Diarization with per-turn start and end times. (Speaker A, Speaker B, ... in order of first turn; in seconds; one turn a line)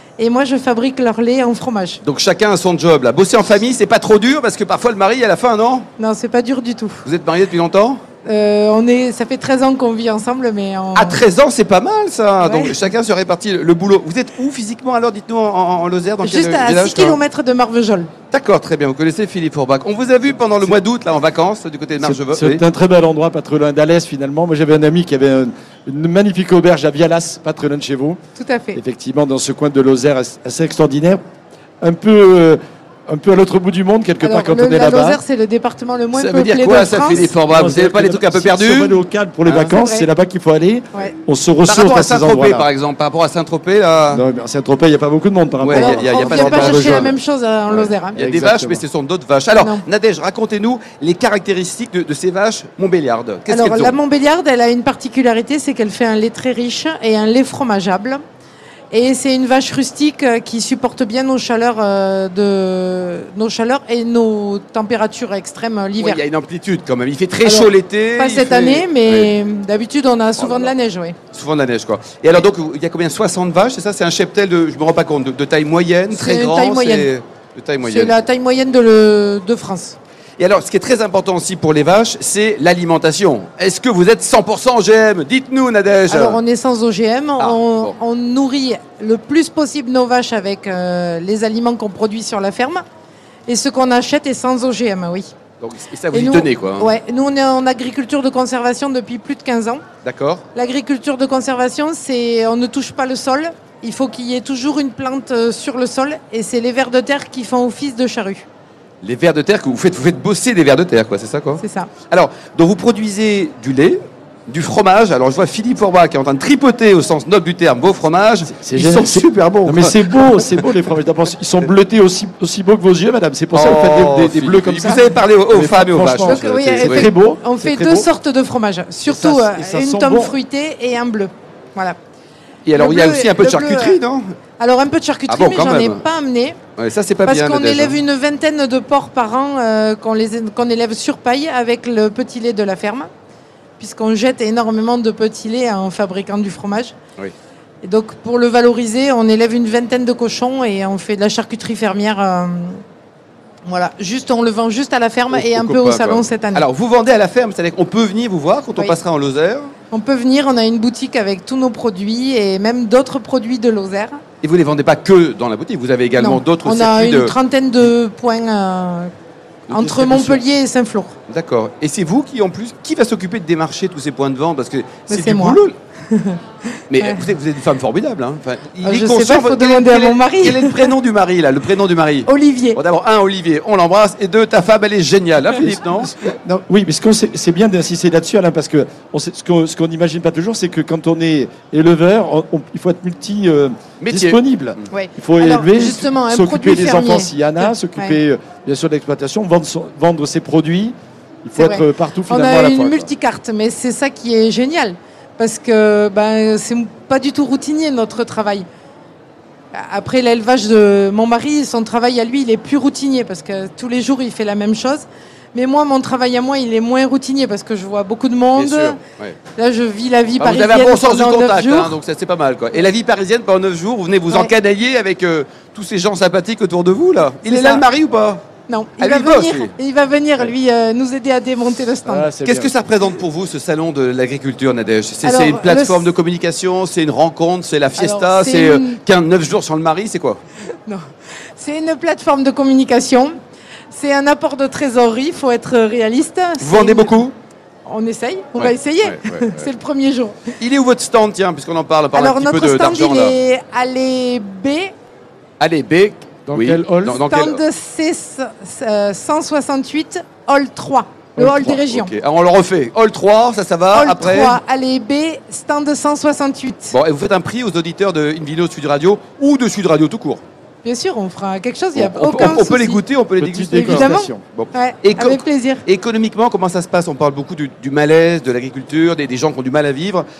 Speaker A: 0.2-2.0
Speaker B: 2.0-5.9
Speaker A: 6.0-7.0
Speaker B: 7.0-8.0
Speaker A: 8.2-11.2
Speaker B: 10.9-17.2
Speaker A: 12.4-12.8
Speaker A: 16.2-18.1
Speaker B: 18.3-22.6
Speaker C: 22.0-28.2
Speaker A: 28.4-28.8
Speaker C: 28.7-31.2
Speaker C: 31.8-35.2
Speaker A: 34.2-37.3
Speaker B: 36.1-39.7
Speaker C: 37.0-42.7
Speaker A: 39.7-40.1
Speaker B: 41.6-44.2
Speaker C: 44.1-47.1
Speaker B: 45.6-47.1
Speaker A: 45.7-48.2
Speaker B: 47.7-54.0
Speaker C: 48.1-48.8
Speaker A: 49.6-49.8
Speaker A: 53.5-58.2
Speaker A: 58.9-66.2
Speaker B: 66.0-69.3
Speaker A: 67.4-71.2
Speaker B: 70.4-70.7
Speaker B: 71.3-78.2
Speaker A: 76.1-77.1
Speaker A: 77.8-80.0
Speaker B: 80.4-86.4
Speaker A: 86.1-92.8
Speaker B: 87.4-87.9
Speaker A: 93.5-95.3
Speaker B: 95.6-96.9
Speaker A: 96.1-99.8
Speaker B: 100.0-100.4
Speaker A: 100.5-108.5
Speaker B: 109.0-120.6
Speaker A: 111.6-111.9
Speaker C: 118.5-128.1
Speaker B: 123.5-127.1
Speaker A: 126.2-132.0
Speaker C: 129.0-130.3
Speaker B: 132.7-134.2
Speaker A: 132.8-134.0
Speaker A: 134.6-136.6
Speaker B: 135.3-136.0
Speaker B: 136.8-138.0
Speaker A: 137.2-143.1
Speaker A: 143.8-146.9
Speaker A: 147.8-152.8
Speaker A: 153.7-156.6
Speaker B: 155.3-159.7
Speaker A: 159.9-164.2
Speaker B: 164.4-167.3
Speaker A: 166.2-169.1
Speaker B: 169.7-170.4
Speaker A: 169.7-171.1
Speaker B: 171.3-175.7
Speaker A: 175.1-176.4
Speaker B: 176.9-186.2
Speaker A: 178.8-180.9
Speaker A: 182.3-182.8
Speaker C: 185.7-203.1
Speaker B: 194.0-194.4
Speaker A: 194.9-198.2
Speaker A: 201.6-208.7
Speaker A: 209.7-219.0
Speaker B: 218.5-219.4
Speaker A: 219.6-221.9
Speaker B: 220.4-228.4
Speaker A: 227.5-227.8
Speaker A: 228.7-232.3
Speaker B: 229.0-229.7
Speaker C: 232.1-232.7
Speaker B: 232.4-240.4
Speaker A: 235.2-236.1
Speaker A: 238.0-239.0
Speaker A: 241.6-243.3
Speaker A: 243.9-247.3
Speaker B: 246.6-247.3
Speaker A: 247.8-250.5
Speaker B: 248.6-249.7
Speaker B: 250.6-253.3
Speaker A: 252.1-254.9
Speaker B: 255.6-257.6
Speaker C: 256.5-257.2
Speaker A: 257.1-262.1
Speaker C: 261.4-261.8
Speaker B: 261.7-264.6
Speaker A: 263.9-266.9
Speaker B: 266.9-270.4
Speaker A: 270.8-273.0
Speaker B: 271.9-280.2
Speaker C: 273.4-274.4
Speaker A: 273.7-275.8